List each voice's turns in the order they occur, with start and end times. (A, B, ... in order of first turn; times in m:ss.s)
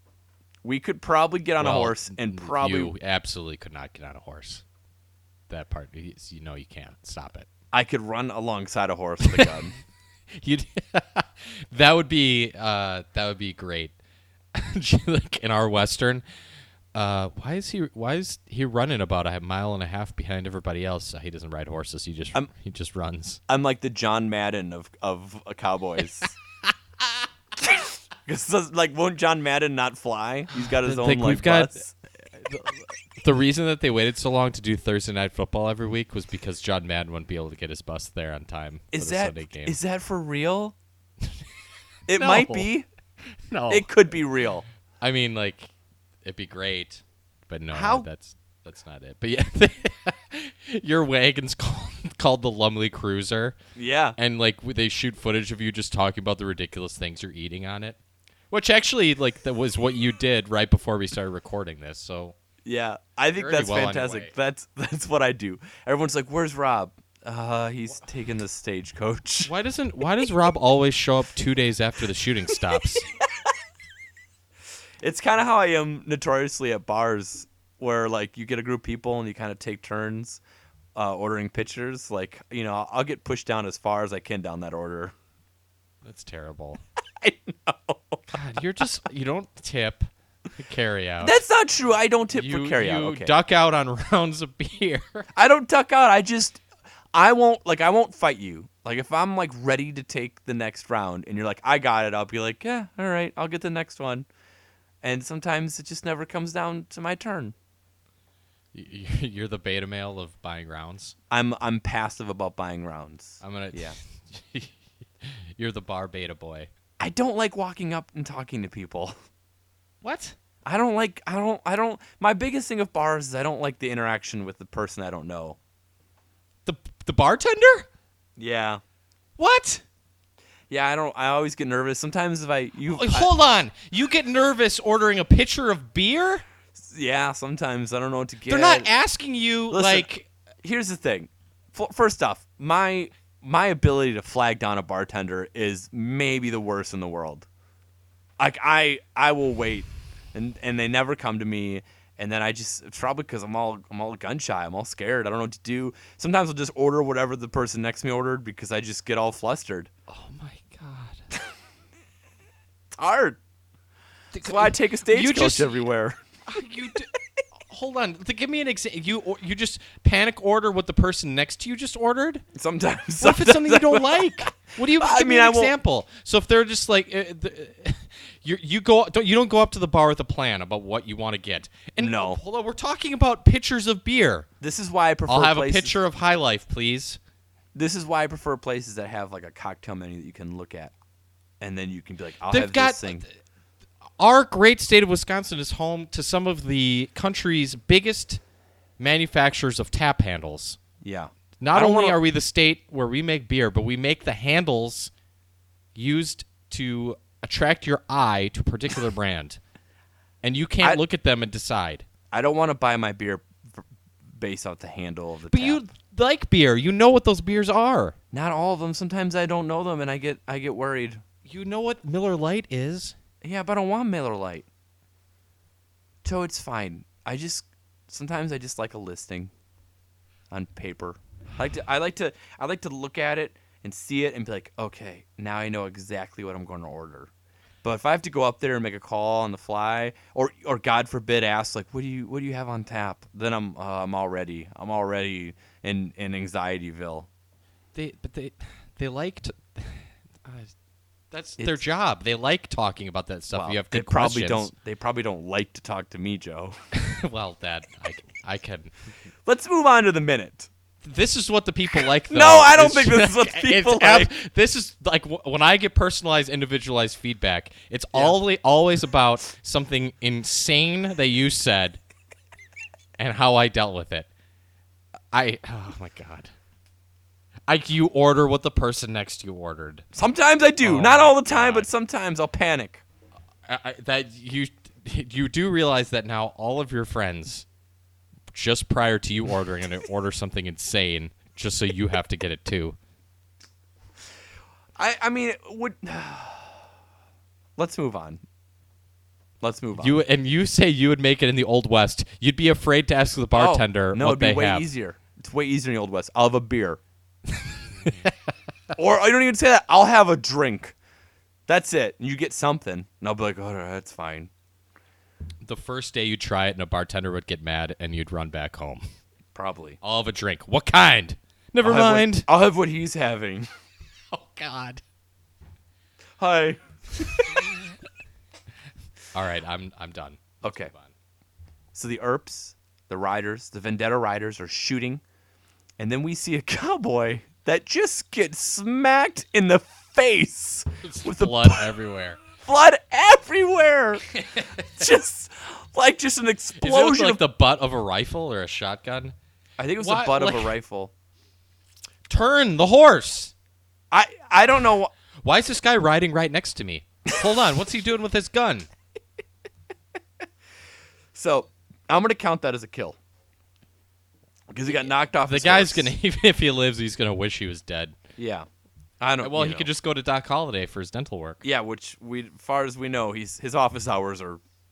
0:00.6-0:02.9 A
0:01.6-0:04.6 B
0:05.5-0:07.5 B
0:07.7-0:09.7 A
0:09.2-0:09.7 B
0:10.4-0:13.9 B
0:14.5-0:16.2 B
0:16.9-0:23.4 B
0:23.5-0:26.3 A
0:28.2-0:31.9 A
0:30.7-0:31.8 B
0:32.4-0:39.8 B
0:38.9-0:40.7 A
0:42.1-0:42.9 A
0:42.1-0:42.7 B
0:43.5-0:43.9 B
0:43.7-0:44.6 A
0:45.0-0:45.7 B
0:46.2-0:53.6 B
0:47.7-0:48.1 A
0:53.8-0:54.2 A
0:54.2-0:58.0 B
0:58.5-1:02.3 B
1:02.6-1:09.5 A
1:03.4-1:04.3 B
1:09.4-1:13.1 B
1:15.0-1:20.4 A
1:20.9-1:25.1 A
1:26.0-1:26.8 B
1:27.2-1:28.2 A
1:28.3-1:31.4 B
1:31.2-1:33.3 A
1:32.3-1:35.3 B
1:35.3-1:36.6 A
1:37.1-1:44.3 A
1:45.0-1:47.5 A
1:48.7-1:51.1 B
1:51.3-1:53.9 A
1:53.4-1:56.7 B
1:57.0-1:59.1 A
2:00.0-2:00.4 B
2:00.6-2:05.6 A
2:06.6-2:07.9 B
2:08.4-2:08.8 A
2:09.4-2:09.8 B
2:10.7-2:13.3 A
2:12.9-2:16.4 B
2:16.8-2:18.9 A
2:18.5-2:20.3 B
2:19.7-2:20.1 A
2:20.6-2:27.5 A
2:28.4-2:39.9 A
2:40.1-2:41.2 B
2:43.0-2:43.4 A
2:44.3-2:45.9 B
2:44.4-2:46.2 A
2:46.5-2:47.1 B
2:47.7-2:52.4 B
2:52.6-2:55.7 A
2:53.2-3:04.5 B
3:02.0-3:02.4 A
3:04.6-3:06.0 A
3:05.3-3:07.2 B
3:07.7-3:10.9 A
3:11.6-3:13.2 A
3:12.5-3:13.3 B
3:14.2-3:18.4 B
3:19.0-3:20.8 B
3:21.0-3:22.2 A
3:21.6-3:25.1 B
3:25.9-3:29.6 B
3:30.4-3:32.0 B
3:32.3-3:33.8 A
3:34.4-3:35.8 A
3:35.5-3:38.1 B
3:38.3-3:41.2 A
3:41.4-3:43.1 B
3:43.4-3:44.7 A
3:46.2-3:49.5 A
3:50.5-3:57.3 A
3:57.8-4:07.3 A
4:07.9-4:10.7 B
4:11.3-4:14.7 B
4:13.5-4:16.8 A
4:16.9-4:18.9 B
4:19.4-4:20.7 A
4:21.0-4:32.0 B
4:22.3-4:24.3 A
4:28.1-4:28.4 A
4:33.2-4:34.3 B
4:35.3-4:36.5 B
4:37.7-4:40.0 B
4:40.1-4:43.0 A
4:40.8-4:41.9 B
4:43.7-4:47.6 B
4:48.5-4:53.0 B
4:55.0-4:56.8 A
4:57.8-4:58.4 A
4:59.6-5:00.2 A
5:00.0-5:04.9 B
5:03.5-5:07.0 A
5:09.0-5:11.0 A
5:11.7-5:14.5 A
5:15.6-5:19.0 B
5:19.5-5:20.0 A
5:20.0-5:22.5 B
5:21.8-5:23.7 A
5:24.3-5:25.0 B
5:26.4-5:27.4 A
5:29.3-5:31.1 B
5:30.6-5:30.9 A
5:31.9-5:35.2 A
5:36.0-5:41.9 A
5:41.0-5:42.4 B
5:42.6-5:44.2 A
5:44.4-5:44.8 B
5:44.8-5:47.4 A
5:46.8-5:49.4 B
5:49.8-5:51.1 A
5:50.0-5:50.7 B
5:52.3-5:53.5 B
5:54.1-5:55.1 A
5:55.4-5:58.9 B
6:01.3-6:03.2 A
6:04.7-6:06.1 A
6:05.5-6:08.2 B
6:08.4-6:08.7 A
6:09.2-6:09.9 A
6:09.4-6:11.6 B
6:11.6-6:14.6 A